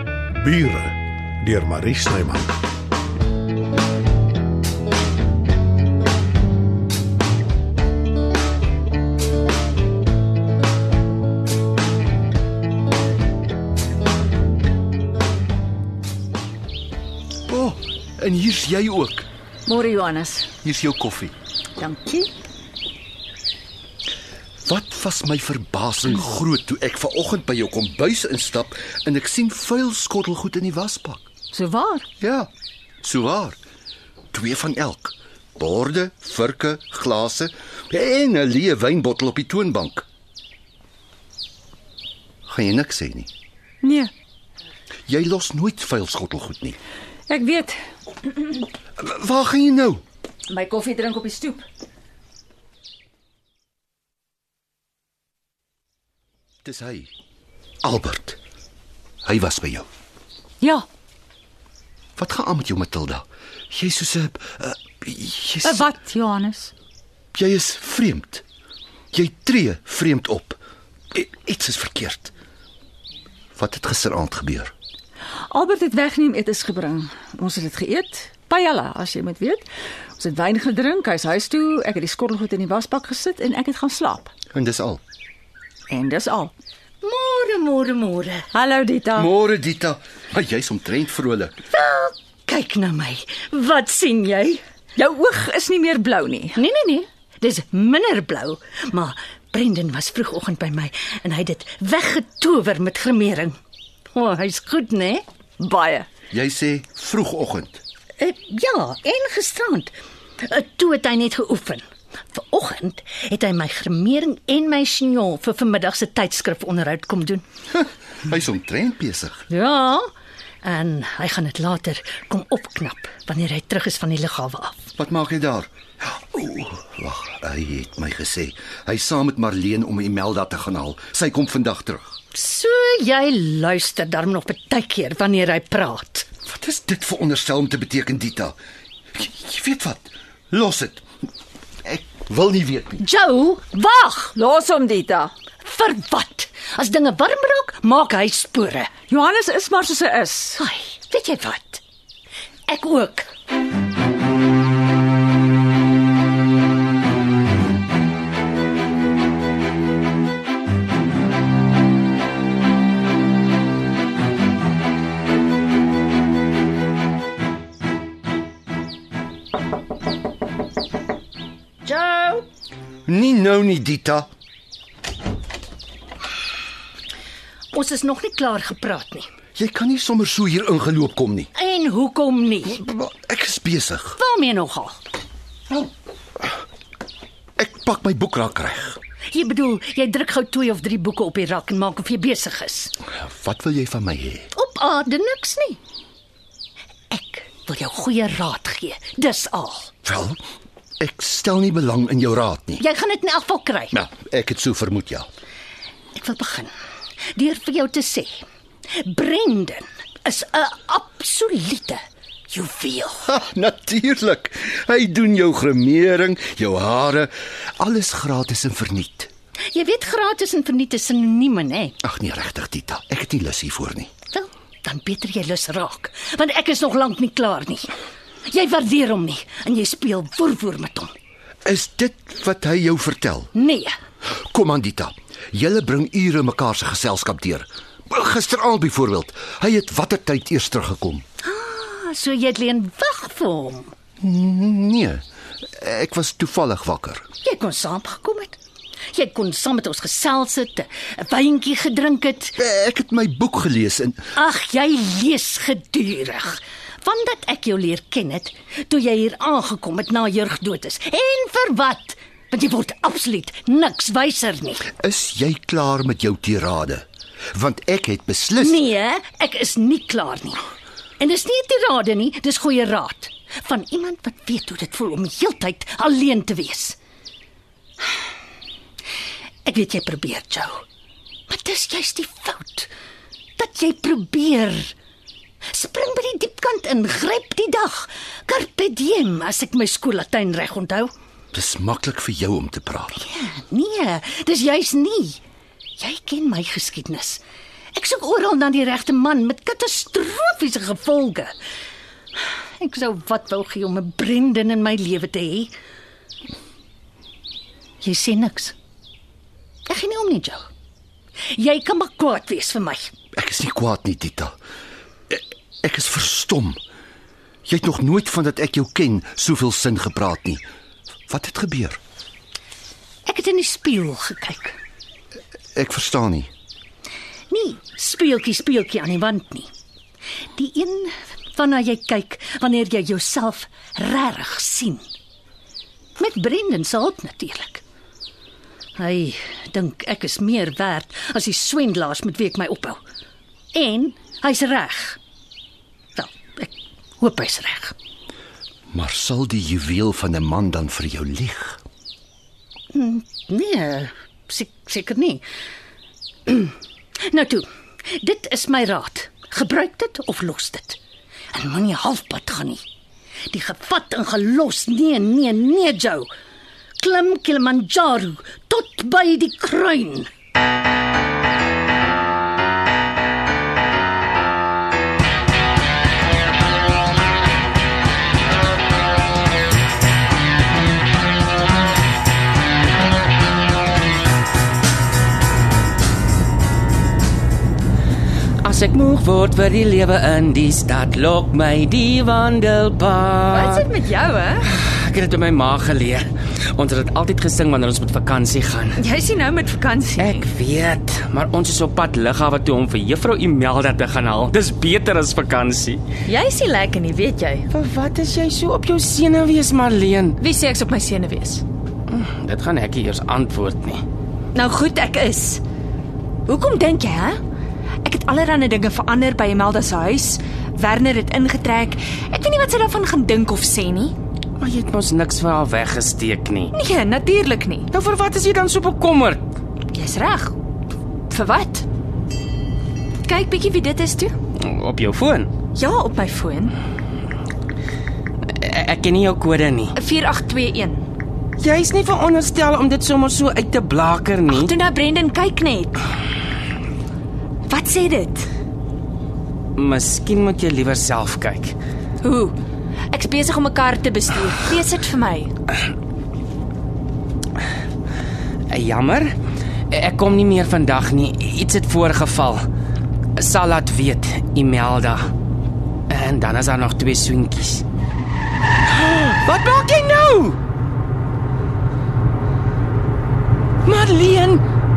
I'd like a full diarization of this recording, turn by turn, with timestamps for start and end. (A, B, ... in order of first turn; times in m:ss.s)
0:00.4-0:02.6 A
0:17.5-0:19.3 B
0:19.7-0:20.5 C
0:20.6-0:21.4 B
0:21.8-0:22.3 C
0:24.6-0:31.3 B
0:31.5-0:32.1 C
0:32.2-0:32.5 B
0:33.0-0:33.6 B
0:34.3-0:40.1 B
0:42.5-0:43.3 B
0:43.8-0:44.1 C
0:45.1-0:46.8 B
0:47.3-0:47.8 C
0:49.0-0:50.0 B
0:50.5-0:51.6 C
0:56.6-0:57.1 B
0:57.8-0:58.4 B
0:59.2-0:59.9 B
1:02.2-1:05.9 B
1:05.6-1:06.7 C
1:07.3-1:08.4 B
1:09.1-1:10.6 B
1:11.1-1:12.3 B
1:13.6-1:14.7 B
1:15.5-1:24.3 C
1:24.5-1:25.0 B
1:25.9-1:26.5 C
1:27.0-1:28.5 D
1:28.5-1:29.3 C
1:29.2-1:31.6 B
1:31.7-1:34.6 D
1:35.0-1:36.6 C
1:36.6-1:43.6 D
1:44.1-1:45.2 D
1:45.6-1:46.1 C
1:46.3-1:47.8 B
1:48.2-1:57.4 D
1:57.7-1:59.4 B
1:59.5-2:00.1 D
2:00.6-2:04.9 D
2:05.0-2:12.2 B
2:12.3-2:16.3 D
2:16.4-2:18.6 B
2:19.1-2:21.0 B
2:21.8-2:23.0 B
2:23.0-2:24.3 D
2:24.3-2:25.3 C
2:25.6-2:28.9 D
2:29.1-2:30.6 C
2:30.6-2:31.8 D
2:32.7-2:33.3 D
2:51.8-2:52.5 D
2:53.1-2:54.3 B
2:57.7-2:59.3 D
2:59.6-3:01.5 B
3:01.5-3:02.8 D
3:02.7-3:04.2 B
3:04.2-3:05.0 D
3:07.6-3:09.0 B
3:09.3-3:12.9 D
3:13.1-3:14.5 B
3:14.5-3:15.8 D
3:17.1-3:19.9 D
3:20.0-3:20.4 B
3:21.0-3:22.8 B
3:22.8-3:24.0 D
3:23.9-3:25.3 B
3:26.2-3:26.7 D
3:27.4-3:28.4 D
3:29.0-3:33.3 D
3:33.2-3:39.3 B
3:39.7-3:42.0 D
3:42.0-3:44.1 B
3:44.3-3:47.9 D
3:48.5-3:51.1 D
3:51.6-3:53.5 B
3:53.5-3:53.9 D
3:54.3-4:01.2 B
4:01.4-4:04.0 D
4:04.2-4:07.3 B
4:07.4-4:08.6 D
4:09.1-4:12.6 D
4:12.6-4:14.3 B
4:14.4-4:24.8 D
4:25.0-4:28.8 B
4:28.6-4:30.6 D
4:31.2-4:37.0 D
4:39.7-4:40.8 D
4:41.5-4:42.9 D
4:43.6-4:45.0 D
4:45.7-4:51.1 D
4:51.5-4:53.2 B
4:53.2-4:55.4 D
4:56.0-4:57.4 D
4:58.0-5:01.5 D
5:02.8-5:05.7 D
5:08.0-5:08.8 D
5:09.9-5:10.7 D
5:11.5-5:13.2 D
5:13.3-5:14.6 B
5:15.3-5:16.8 B
5:17.7-5:20.6 B
5:21.3-5:22.0 B
5:23.3-5:24.8 D
5:25.8-5:26.5 B
5:27.5-5:29.7 D
5:30.6-5:35.1 D
5:36.2-5:37.8 D
5:39.0-5:43.0 D
5:43.7-5:45.2 D
5:46.2-5:47.9 D
5:48.9-5:51.8 B
5:52.9-5:55.4 D
5:56.5-5:56.7 D
5:57.3-6:01.0 D
6:01.5-6:02.8 D
6:03.5-6:06.3 D
6:07.0-6:10.3 D
6:28.6-6:33.9 E
6:34.0-6:34.4 F
6:34.7-6:39.0 E
6:39.0-6:40.1 F
6:40.2-6:46.0 E
6:46.3-6:47.6 F
6:47.7-6:50.4 E
6:50.4-6:51.6 F
6:52.1-6:54.0 E
6:54.6-6:55.6 F
6:56.5-6:57.4 F
6:58.0-7:04.1 F
7:04.6-7:06.7 E
7:06.8-7:07.8 F
7:07.9-7:09.4 E
7:09.9-7:10.5 F
7:11.3-7:11.8 F
7:13.3-7:14.3 F
7:14.6-7:15.5 E
7:15.8-7:16.7 F
7:18.6-7:20.0 E
7:20.0-7:21.0 F
7:21.6-7:24.7 E
7:24.5-7:26.0 F
7:27.7-7:28.4 F
7:29.8-7:31.8 E
7:32.2-7:32.5 F
7:33.1-7:35.5 F
7:38.7-7:39.3 E
7:39.9-7:42.7 E
7:43.4-7:45.3 E
7:46.1-7:47.8 E
7:48.9-7:50.6 E
7:53.8-7:54.6 E